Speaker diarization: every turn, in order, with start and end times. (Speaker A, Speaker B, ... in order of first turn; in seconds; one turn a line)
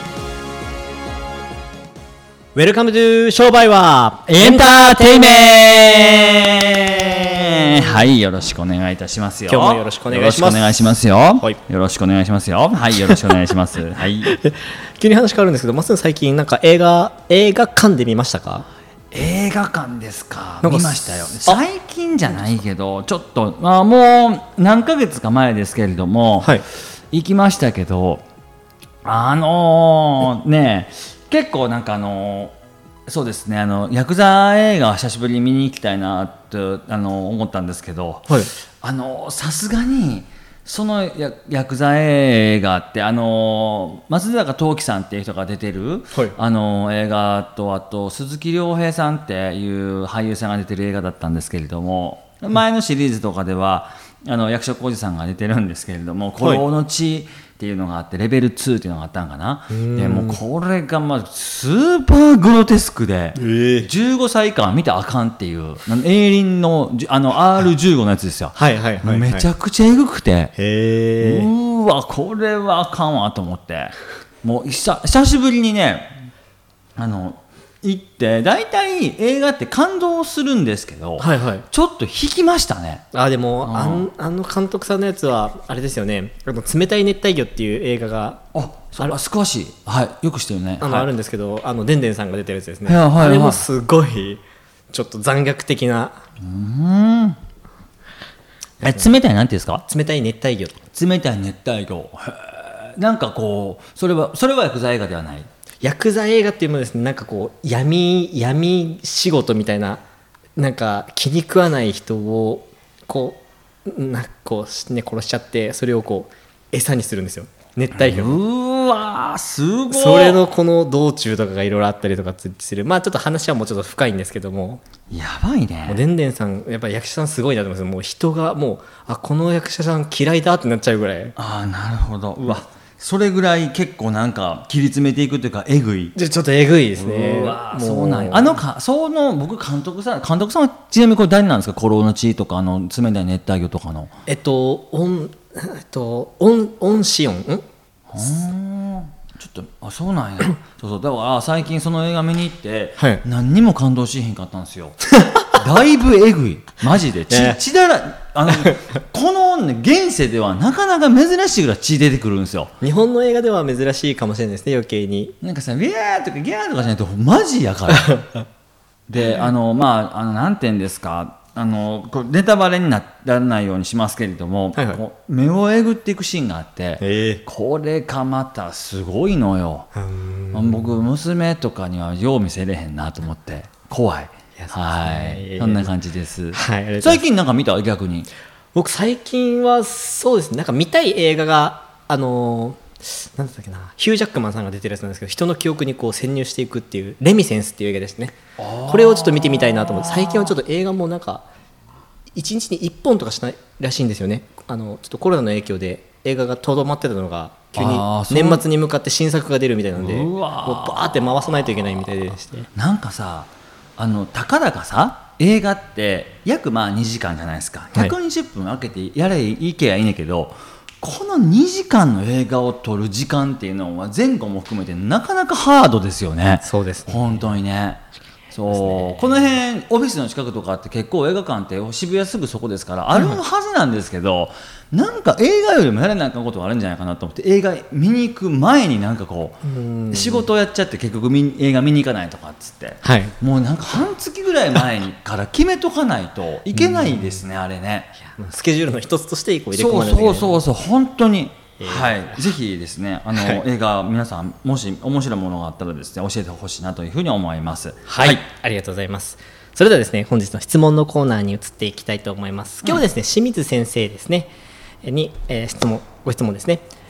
Speaker A: 2.5-5.6
Speaker B: 4.3-14.3
Speaker A: 7.4-8.0
Speaker A: 9.5-11.6
Speaker A: 13.0-13.3
Speaker A: 14.2-18.6
Speaker B: 19.1-26.6
Speaker A: 20.6-21.6
Speaker B: 27.1-28.2
Speaker B: 29.0-32.5
Speaker B: 33.1-70.5
Speaker A: 59.7-60.4
Speaker A: 63.4-63.9
Speaker A: 68.5-69.5
Speaker A: 70.5-71.5
Speaker B: 71.2-76.2
Speaker B: 77.0-83.0
Speaker A: 81.2-81.7
Speaker A: 83.1-88.4
Speaker B: 83.6-84.1
Speaker B: 88.5-91.1
Speaker A: 90.8-96.2
Speaker B: 92.8-93.6
Speaker B: 96.4-97.4
Speaker A: 98.8-99.1
Speaker B: 98.8-99.8
Speaker A: 99.8-100.8
Speaker B: 100.9-105.5
Speaker A: 105.8-110.0
Speaker A: 110.5-118.4
Speaker B: 118.0-120.4
Speaker A: 119.9-124.8
Speaker B: 125.1-126.0
Speaker A: 125.8-131.3
Speaker B: 131.3-136.1
Speaker A: 136.1-138.6
Speaker B: 136.9-144.1
Speaker A: 144.3-147.6
Speaker B: 148.1-162.7
Speaker A: 153.0-153.2
Speaker A: 155.1-155.5
Speaker A: 157.3-157.6
Speaker A: 162.8-165.3
Speaker B: 165.4-168.2
Speaker A: 167.9-168.4
Speaker B: 169.1-179.9
Speaker A: 174.8-175.0
Speaker A: 177.0-177.4
Speaker A: 179.9-180.9
Speaker B: 180.5-188.3
Speaker A: 184.6-185.9
Speaker A: 186.5-187.2
Speaker A: 188.7-201.4
Speaker B: 198.6-200.5
Speaker A: 202.3-212.7
Speaker B: 207.7-208.6
Speaker B: 209.9-211.5
Speaker B: 212.7-228.0
Speaker A: 226.6-227.5
Speaker B: 228.5-248.1
Speaker A: 228.7-229.4
Speaker A: 239.6-240.5
Speaker A: 243.0-243.3
Speaker A: 246.7-247.4
Speaker A: 248.2-250.6
Speaker B: 249.7-258.4
Speaker A: 251.8-252.4
Speaker A: 253.3-253.6
Speaker A: 258.1-264.5
Speaker A: 265.0-266.9